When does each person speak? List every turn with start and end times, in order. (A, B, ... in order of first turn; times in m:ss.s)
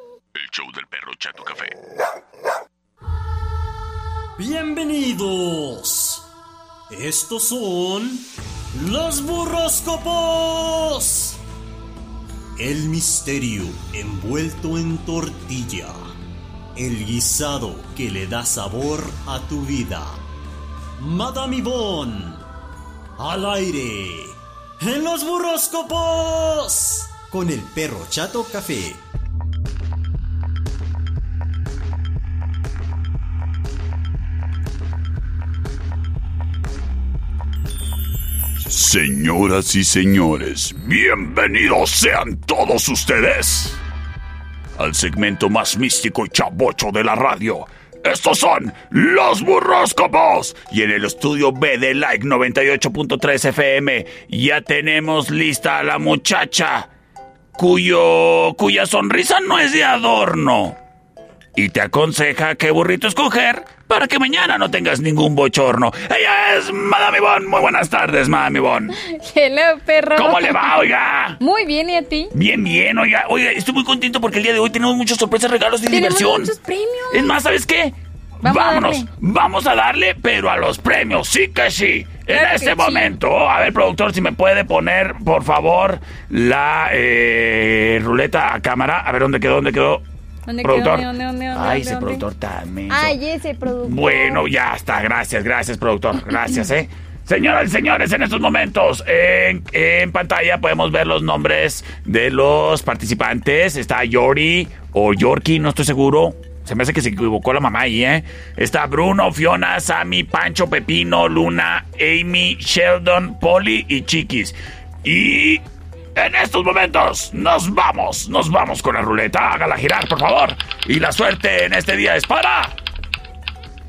0:00.3-0:01.8 A
0:04.4-0:06.2 B
0:06.9-0:11.4 B
0:12.6-0:16.0 B
0:16.7-0:20.2 B
0:21.0-0:22.4 B
0:23.2-0:29.0 B
0:38.6-0:43.8 A
0:44.8-0:56.9 A
0:57.6-1:00.8 A
1:01.5-1:09.0 A
1:08.9-1:10.8 C
1:10.1-1:11.4 A
1:11.4-1:12.3 C
1:12.3-1:16.5 A
1:15.9-1:17.4 C
1:17.1-1:30.0 A
1:18.4-1:19.1 C
1:22.3-1:23.2 C
1:30.5-1:32.2 C
1:30.6-1:55.6 A
1:32.9-1:34.4 C
1:56.2-2:02.8 A